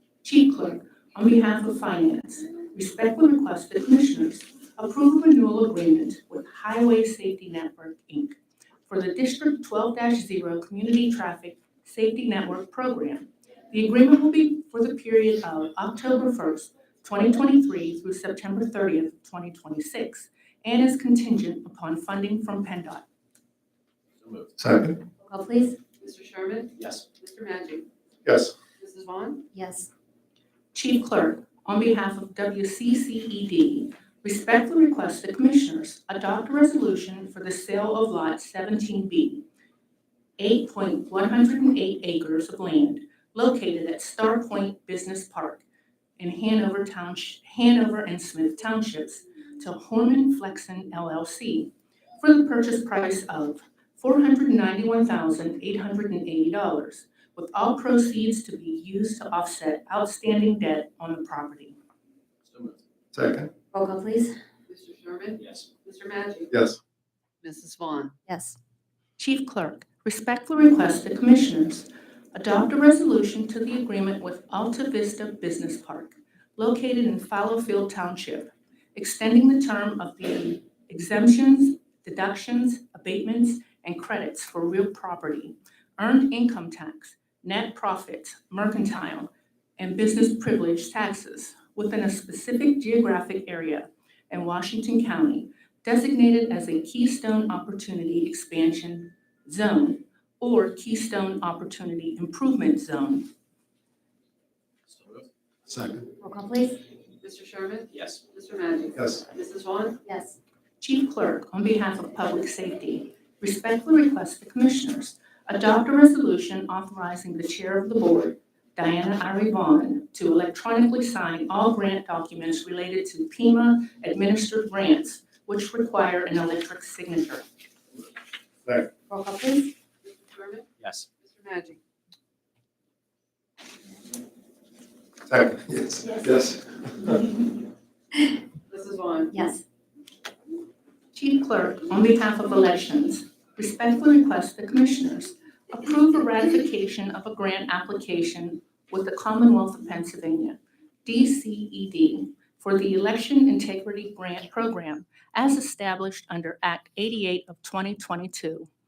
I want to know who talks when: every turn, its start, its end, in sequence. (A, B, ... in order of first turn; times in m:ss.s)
0:00.2-0:23.0 A
0:24.2-0:24.5 B
0:24.6-0:25.0 C
0:25.2-0:25.8 D
0:26.0-0:27.9 E
0:26.8-0:27.0 B
0:28.2-0:28.5 C
0:28.8-0:29.4 E
0:29.5-0:29.9 D
0:30.7-0:39.4 A
0:40.4-0:45.6 A
0:46.2-1:01.8 A
1:02.5-1:02.8 B
1:03.1-1:03.5 C
1:03.7-1:04.4 D
1:04.7-1:06.5 E
1:05.4-1:05.7 B
1:06.5-1:06.8 C
1:07.4-1:08.1 E
1:08.3-1:08.6 D
1:09.2-1:43.3 A
1:44.9-1:45.3 B
1:45.7-1:46.1 C
1:46.2-1:46.8 D
1:47.2-1:50.0 E
1:47.9-1:48.2 B
1:49.0-1:49.2 C
1:50.0-1:50.4 D
1:50.8-2:07.4 A
2:09.1-2:09.7 D
2:10.0-2:11.8 E
2:10.8-2:11.1 B
2:15.3-2:17.2 C
2:18.7-2:19.4 E
2:19.3-2:19.6 D
2:21.1-2:38.7 A